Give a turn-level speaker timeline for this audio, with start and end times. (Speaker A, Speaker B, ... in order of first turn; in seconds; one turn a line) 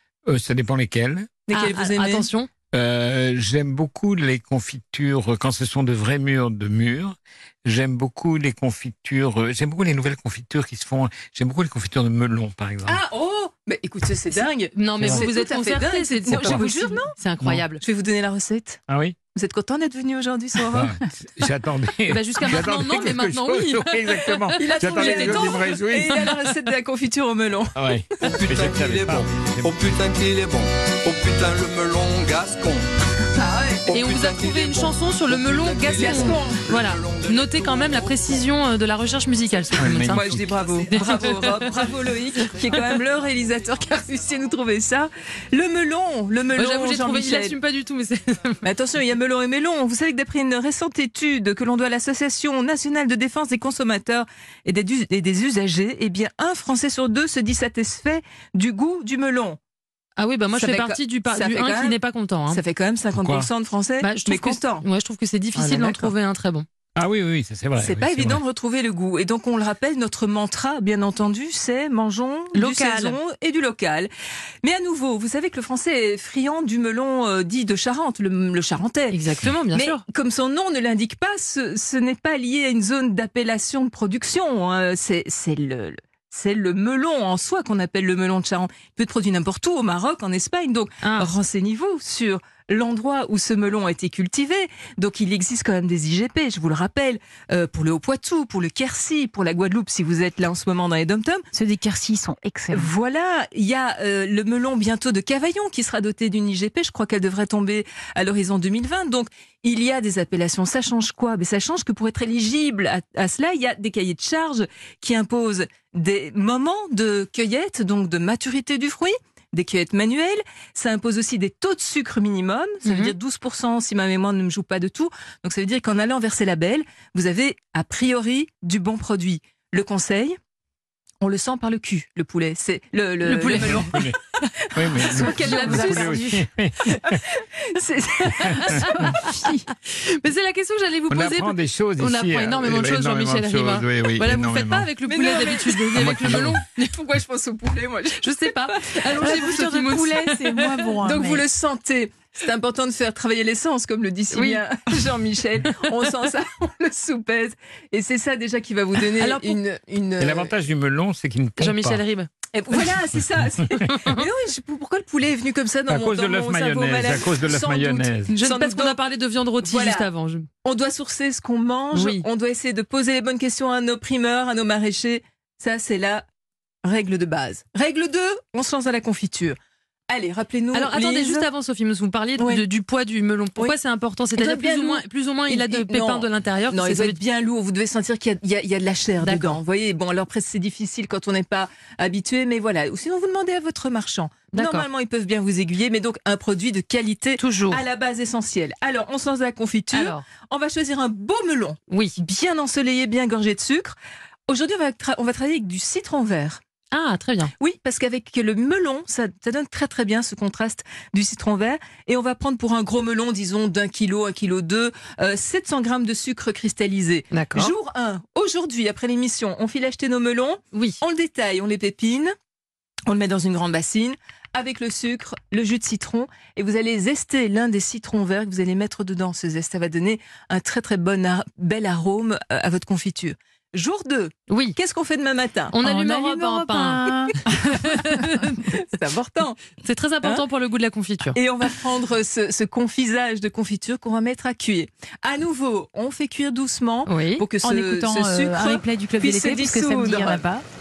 Speaker A: 0.3-1.3
Speaker B: 1.5-2.3
Speaker C: 1.5-2.5
Speaker A: 2.7-13.0
Speaker B: 12.8-17.1
Speaker C: 14.7-17.8
Speaker A: 15.0-15.3
Speaker A: 16.3-16.6
Speaker B: 17.8-18.8
Speaker A: 18.9-19.2
Speaker B: 19.3-20.9
Speaker A: 20.7-26.3
Speaker C: 22.1-26.3
Speaker B: 24.6-27.8
Speaker A: 27.8-29.8
Speaker D: 28.2-32.9
Speaker B: 33.3-33.9
Speaker D: 33.8-38.5
Speaker C: 33.9-41.8
Speaker B: 35.8-36.6
Speaker A: 39.8-40.6
Speaker B: 40.1-47.5
Speaker D: 40.5-41.8
Speaker C: 42.6-43.0
Speaker C: 46.5-48.6
Speaker B: 48.6-59.6
Speaker C: 60.2-62.6
Speaker B: 60.5-64.8
Speaker A: 63.1-63.5
Speaker C: 64.0-66.6
Speaker B: 65.5-66.1
Speaker A: 66.9-68.4
Speaker B: 67.8-74.1
Speaker C: 72.5-73.2
Speaker B: 74.6-79.2
Speaker C: 79.1-80.0
Speaker B: 79.7-101.5
Speaker C: 91.0-91.3
Speaker E: 101.5-102.9
Speaker B: 102.7-130.4
Speaker C: 122.8-123.1
Speaker B: 131.2-134.1
Speaker C: 133.2-134.0
Speaker A: 133.5-134.2
Speaker A: 134.7-137.2
Speaker B: 134.8-136.2
Speaker C: 135.0-136.4
Speaker B: 136.9-139.5
Speaker C: 138.4-146.9
Speaker A: 141.1-144.9
Speaker B: 145.1-146.2
Speaker A: 145.9-146.6
Speaker B: 146.8-149.6
Speaker C: 148.2-151.0
Speaker E: 149.2-151.4
Speaker B: 151.1-160.6
Speaker C: 154.3-154.6
Speaker C: 159.1-159.6
Speaker A: 160.2-162.0
Speaker C: 161.6-162.3
Speaker B: 162.5-169.0
Speaker C: 163.8-164.2
Speaker A: 165.9-168.3
Speaker C: 168.3-170.5
Speaker B: 169.6-170.1
Speaker B: 170.7-176.3
Speaker C: 171.9-172.2
Speaker B: 176.8-179.6
Speaker B: 180.1-181.5
Speaker C: 180.7-187.2
Speaker B: 182.4-182.6
Speaker B: 184.3-204.0
Speaker C: 189.2-189.6
Speaker C: 194.5-194.9
Speaker C: 197.4-197.8
Speaker C: 199.9-200.2
Speaker C: 201.9-202.2
Speaker B: 204.5-206.6
Speaker C: 206.9-207.5
Speaker B: 207.6-222.3
Speaker C: 217.3-217.7
Speaker C: 220.7-221.0
Speaker B: 223.1-236.5
Speaker C: 234.5-234.8
Speaker C: 235.7-238.6
Speaker E: 235.8-237.4
Speaker B: 237.5-237.9
Speaker E: 238.1-238.6
Speaker B: 238.7-239.6
Speaker C: 239.8-241.4
Speaker B: 241.3-250.4
Speaker C: 247.1-247.5
Speaker E: 247.6-250.7